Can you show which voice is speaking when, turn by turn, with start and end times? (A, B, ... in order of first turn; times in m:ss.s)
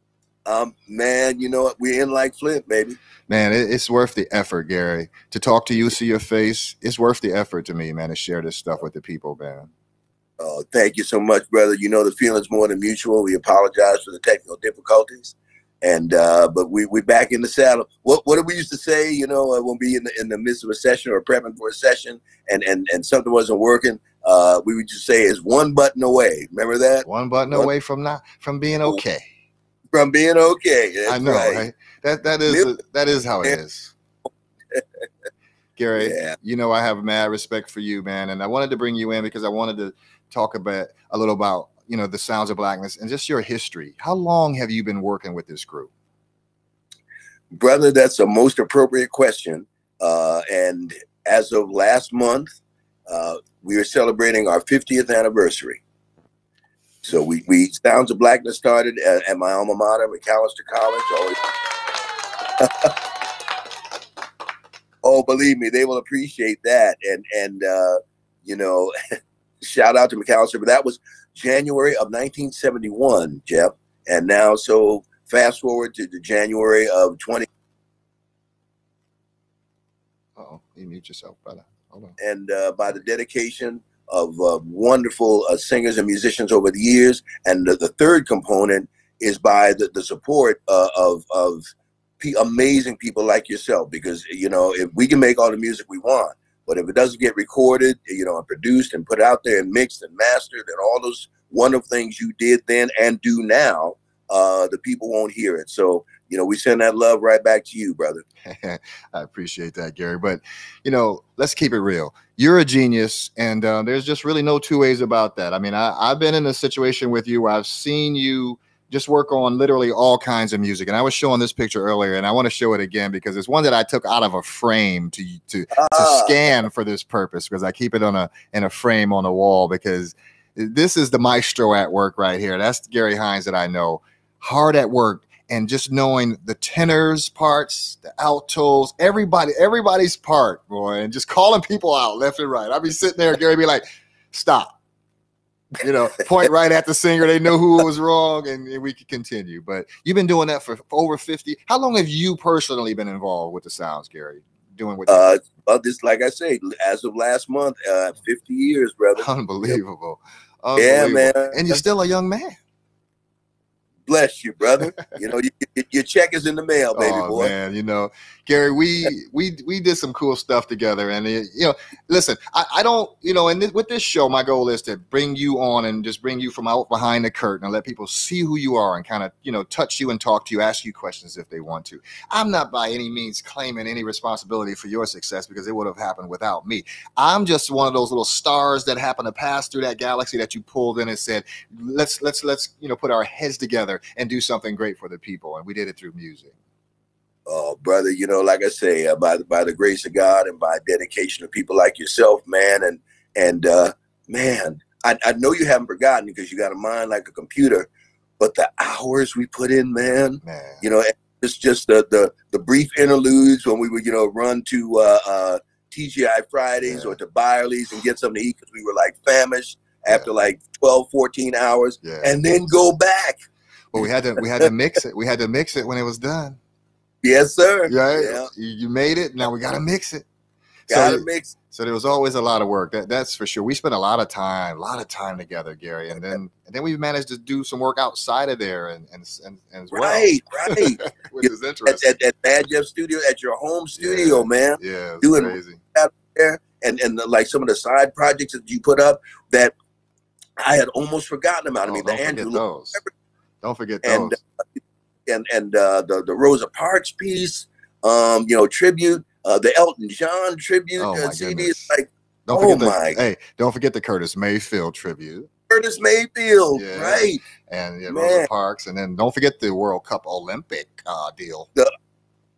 0:00.4-0:03.0 A
0:03.3-0:09.7 B
0:10.4-0:27.7 A
0:27.0-0:29.3 B
0:29.9-0:31.7 A
0:31.1-0:33.9 B
0:32.5-0:32.7 A
0:35.8-0:45.9 B
0:36.0-0:36.3 A
0:47.5-0:55.8 A
0:57.0-1:01.4 A
1:02.6-1:02.9 A
1:05.0-1:08.9 A
1:09.6-1:17.5 A
1:20.4-1:22.2 B
1:22.2-1:31.7 A
1:32.2-1:48.2 A
1:48.4-2:24.8 B
2:05.7-2:06.5 A
2:25.8-2:35.3 B
2:35.1-2:39.8 A
2:39.2-2:42.6 B
2:40.8-2:41.8 A
2:44.1-2:47.5 A
2:46.9-3:16.5 B
3:17.5-3:27.9 A
3:28.4-3:43.4 A
3:30.4-3:30.8 B
3:36.8-3:37.2 B
3:42.0-3:42.3 B
3:43.9-3:46.6 B
3:47.2-3:48.5 A
3:47.9-3:50.2 B
3:50.9-3:51.5 A
3:50.9-4:02.2 B
3:59.9-4:09.7 A
4:04.0-4:05.8 B
4:10.6-4:13.1 A
4:11.8-4:13.0 B
4:13.6-4:14.4 B
4:14.0-4:23.2 A
4:21.0-4:21.9 B
4:22.5-4:25.5 B
4:25.7-4:27.4 A
4:26.7-4:31.7 B
4:28.1-4:28.5 A